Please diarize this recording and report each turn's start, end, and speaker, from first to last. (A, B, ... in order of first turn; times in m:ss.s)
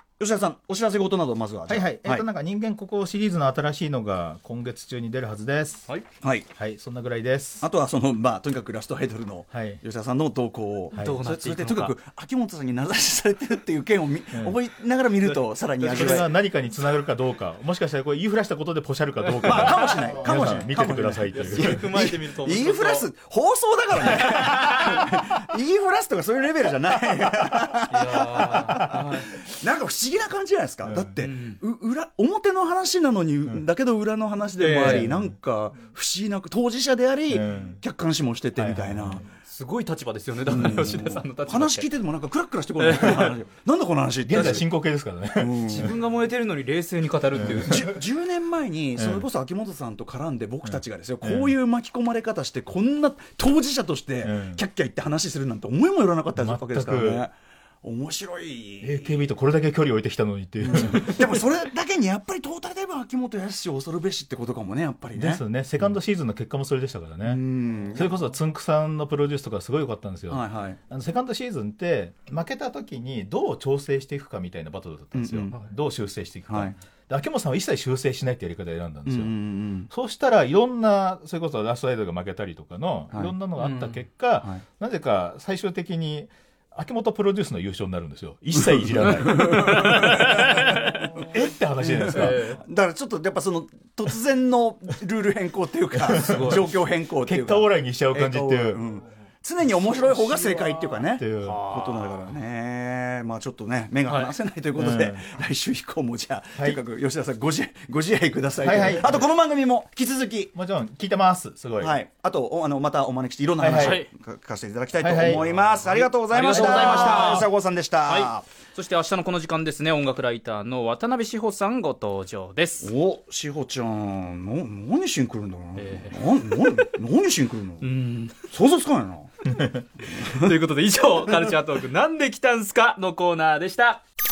0:00.2-0:02.3 A
0:01.7-0:05.9 B
0:06.2-0:06.5 A
0:06.5-0:07.6 B
0:07.6-0:16.3 A
0:09.5-0:09.8 B
0:10.9-0:11.2 B
0:10.9-0:12.0 C
0:14.3-0:14.6 B
0:15.2-0:16.3 C
0:15.8-0:21.9 B
0:19.3-0:20.5 C
0:19.4-0:39.3 A
0:21.3-0:23.1 C
0:24.0-0:25.1 C
0:27.9-0:29.3 C
0:30.8-0:31.2 B
0:31.2-0:31.6 C
0:34.6-0:35.1 C
0:34.8-0:35.4 B
0:37.3-0:37.8 B
0:38.6-0:39.2 B
0:39.4-0:41.9 C
0:40.4-0:44.7 A
0:42.8-0:43.4 C
0:44.2-0:45.6 B
0:45.4-0:46.0 A
0:45.6-0:47.9 C
0:47.3-0:48.0 B
0:47.6-0:59.2 A
0:49.0-0:49.3 B
0:50.6-0:51.6 B
0:54.2-0:54.6 B
0:56.4-0:57.3 B
0:58.8-1:01.5 B
1:00.6-1:05.9 A
1:05.1-1:07.4 B
1:07.2-1:08.2 A
1:07.9-1:19.3 B
1:10.3-1:10.8 A
1:15.1-1:15.6 A
1:16.5-1:16.8 A
1:19.1-1:19.9 A
1:19.9-1:29.8 B
1:23.6-1:24.0 C
1:29.2-1:31.1 C
1:29.4-1:30.4 A
1:31.2-1:32.5 B
1:31.8-1:50.6 A
1:32.0-1:32.6 C
1:36.0-1:36.7 C
1:36.1-1:38.8 B
1:41.2-1:41.6 B
1:41.5-1:42.2 C
1:44.1-1:44.3 C
1:44.8-1:45.3 B
1:48.6-1:49.2 B
1:50.5-1:52.0 B
1:51.8-1:58.4 A
1:53.6-1:54.0 B
1:53.7-1:54.1 C
1:55.0-1:55.5 B
1:55.3-2:02.9 C
1:56.4-1:57.4 B
2:02.8-2:07.9 A
2:05.8-2:06.9 C
2:07.8-2:08.4 C
2:08.5-2:09.3 A
2:10.0-2:14.0 C